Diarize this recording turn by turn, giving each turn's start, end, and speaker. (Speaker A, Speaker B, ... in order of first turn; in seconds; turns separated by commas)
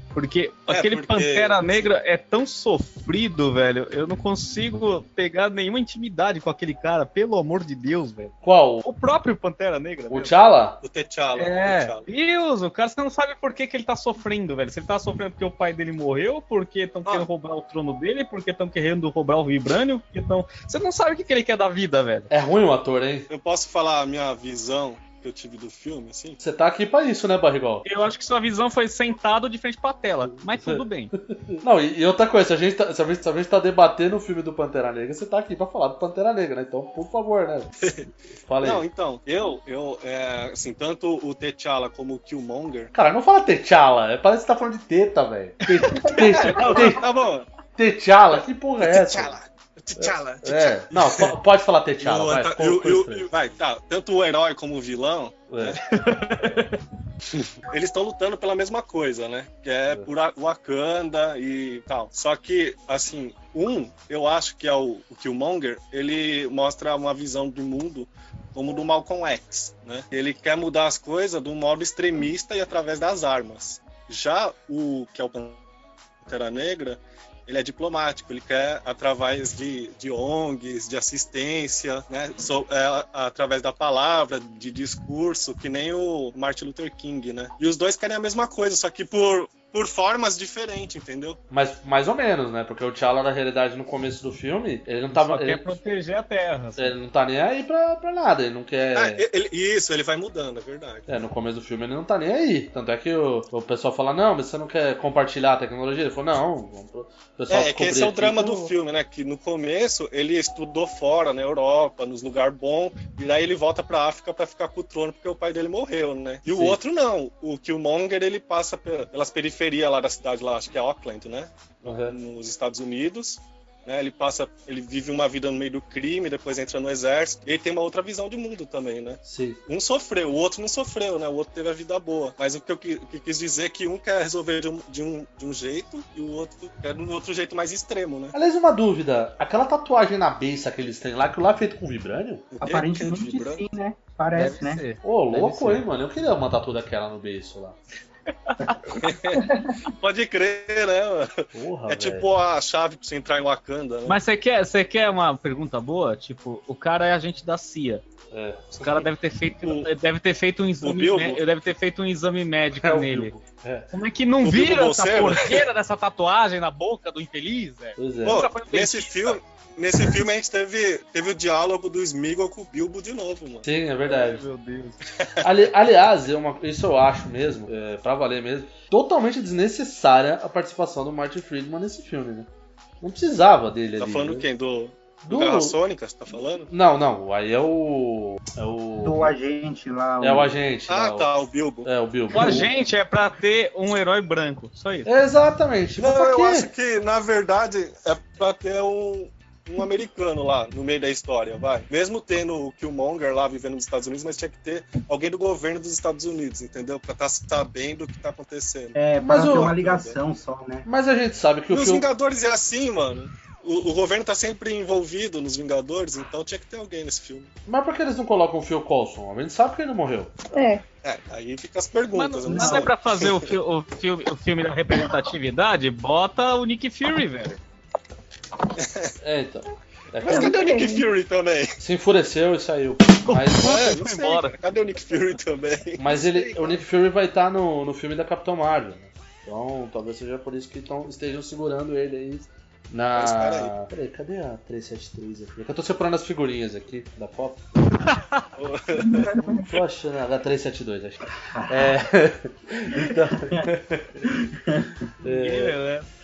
Speaker A: 0.1-10.3, Speaker B: 0.7-1.9, Speaker C: 8.4-8.8, Speaker C: 10.1-10.8, Speaker B: 10.8-12.1, Speaker A: 11.3-22.3, Speaker C: 22.3-23.3, Speaker B: 23.3-26.4, Speaker C: 26.4-27.9, Speaker A: 27.9-31.1, Speaker C: 30.3-30.8, Speaker C: 31.6-37.7, Speaker B: 37.8-38.1, Speaker C: 38.5-38.8, Speaker B: 38.6-42.9, Speaker C: 42.9-47.0, Speaker B: 46.0-47.5, Speaker C: 47.8-49.4, Speaker B: 48.8-51.3, Speaker C: 50.0-53.3, Speaker B: 52.0-55.8, Speaker C: 55.5-55.8, Speaker A: 56.0-56.8, Speaker B: 57.3-75.6, Speaker B: 76.2-91.4, Speaker C: 91.5-95.8, Speaker A: 95.1-96.9, Speaker C: 96.8-99.2, Speaker B: 98.9-101.0, Speaker C: 101.1-108.7, Speaker B: 107.5-138.3, Speaker C: 116.5-116.8, Speaker C: 121.8-122.1, Speaker C: 129.2-129.6, Speaker C: 138.3-142.4, Speaker B: 142.5-143.6, Speaker D: 142.6-144.8, Speaker A: 144.3-145.8, Speaker C: 145.0-147.8, Speaker B: 149.0-154.2, Speaker E: 149.4-149.7, Speaker C: 151.5-152.3, Speaker A: 154.1-158.0, Speaker C: 158.3-158.8, Speaker A: 158.8-163.3, Speaker B: 159.6-159.9, Speaker B: 160.8-161.4, Speaker C: 162.8-163.9, Speaker A: 163.9-169.4, Speaker B: 164.4-165.6, Speaker C: 168.0-168.4, Speaker B: 168.2-173.7, Speaker C: 173.6-174.4, Speaker A: 174.1-175.0, Speaker C: 175.4-182.5, Speaker C: 183.0-184.5, Speaker B: 184.0-186.7, Speaker C: 185.2-185.8, Speaker C: 186.7-189.3, Speaker D: 189.0-190.6, Speaker C: 190.2-191.3, Speaker B: 190.9-191.9, Speaker C: 191.8-192.7, Speaker A: 192.3-195.1, Speaker C: 195.1-196.7, Speaker B: 196.0-210.2, Speaker D: 208.9-210.9, Speaker C: 209.2-209.7, Speaker C: 210.9-212.1, Speaker B: 211.7-217.5, Speaker C: 217.7-220.3, Speaker E: 220.5-220.8, Speaker B: 221.0-223.5, Speaker A: 222.1-227.6, Speaker D: 222.5-222.9, Speaker B: 228.8-229.1, Speaker C: 229.2-230.6, Speaker E: 230.2-231.1, Speaker B: 230.2-231.7, Speaker C: 231.8-233.8, Speaker A: 233.2-234.6, Speaker B: 233.6-236.8, Speaker C: 236.0-247.6, Speaker B: 243.2-243.7, Speaker A: 248.2-248.4, Speaker B: 248.6-249.7, Speaker E: 249.1-249.6, Speaker C: 249.6-254.2, Speaker D: 251.5-251.9, Speaker D: 252.9-253.7, Speaker D: 254.2-255.1, Speaker C: 255.2-255.7, Speaker A: 255.2-256.1